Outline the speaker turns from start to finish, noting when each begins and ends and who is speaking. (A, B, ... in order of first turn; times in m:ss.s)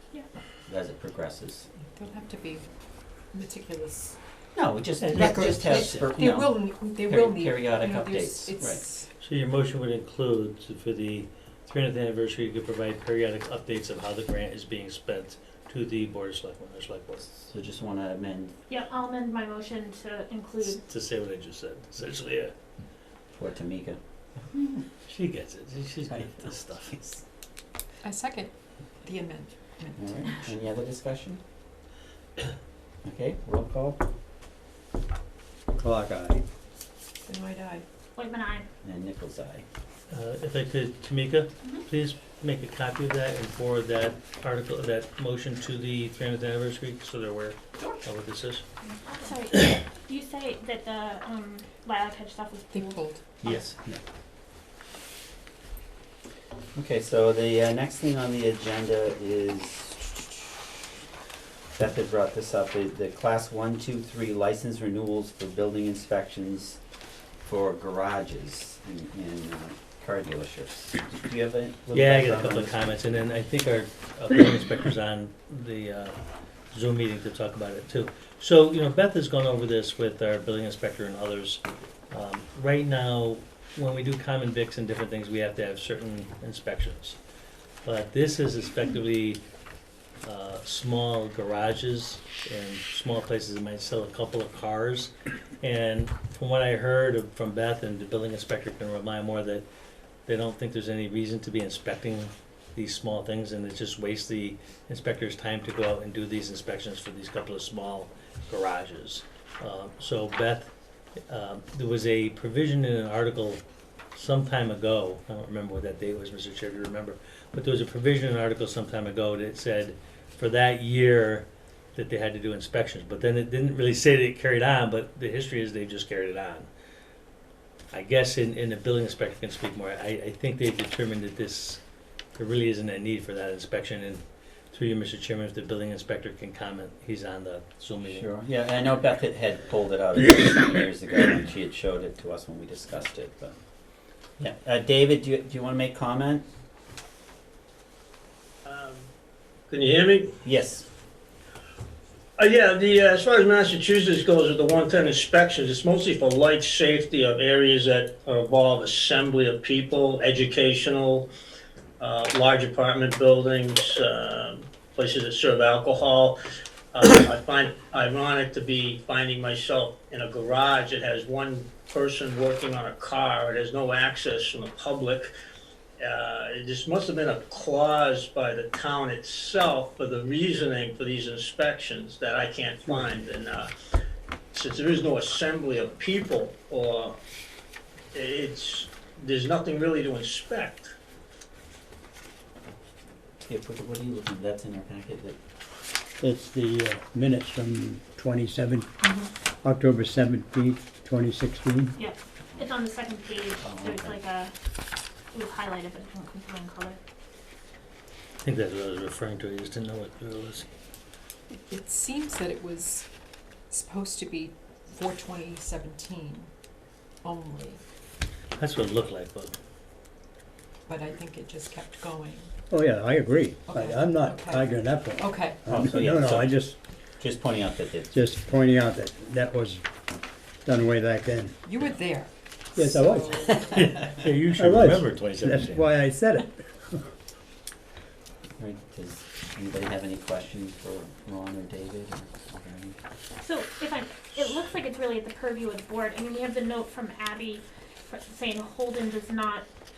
0:00.7-0:01.7 A
0:02.0-0:02.7 B
0:03.3-0:04.2 B
0:04.6-0:08.8 A
0:05.0-0:06.2 C
0:05.2-0:09.1 B
0:09.2-0:17.3 C
0:17.3-0:18.6 A
0:18.7-0:20.8 D
0:20.7-0:22.5 C
0:23.4-0:24.0 A
0:25.0-0:27.0 C
0:28.0-0:30.2 B
0:30.0-0:31.4 A
0:33.0-0:34.0 A
0:35.8-0:36.4 E
0:37.3-0:37.8 B
0:38.2-0:38.7 D
0:38.8-0:39.6 A
0:40.1-0:48.6 C
0:49.0-0:53.6 D
0:52.7-0:53.2 B
0:53.4-0:54.0 A
0:56.7-1:00.2 A
1:01.8-1:06.8 A
1:07.4-1:13.2 A
1:11.9-1:16.2 C
1:16.7-1:27.2 C
1:27.8-1:29.4 C
1:30.2-1:39.7 C
1:40.3-1:50.7 C
1:51.3-1:53.6 C
1:54.1-2:06.7 C
2:07.9-2:11.8 C
2:12.4-2:18.3 C
2:18.1-2:23.6 A
2:24.4-2:26.4 A
2:28.6-2:29.1 F
2:29.7-2:30.4 F
2:30.4-2:30.9 A
2:32.4-2:41.3 F
2:42.0-2:46.4 F
2:46.9-2:55.3 F
2:56.0-3:03.7 F
3:04.5-3:07.2 F
3:08.1-3:10.9 F
3:13.4-3:15.4 A
3:16.2-3:18.9 E
3:19.6-3:21.9 E
3:22.0-3:24.5 D
3:23.6-3:24.2 A
3:25.3-3:27.0 D
3:28.4-3:30.7 C
3:31.5-3:33.0 B
3:33.7-3:36.5 B
3:37.2-3:37.8 B
3:38.6-3:39.6 C
3:40.9-3:42.5 B
3:42.7-3:46.8 E
3:43.7-3:45.7 B
3:45.7-3:46.5 A
3:47.2-3:48.2 A
3:48.1-3:49.8 E
3:50.6-3:51.6 E
3:51.6-3:53.8 B
3:52.8-3:53.6 E
3:53.6-3:55.9 C
3:54.6-3:57.1 E
3:58.6-4:03.0 A
4:03.4-4:09.7 D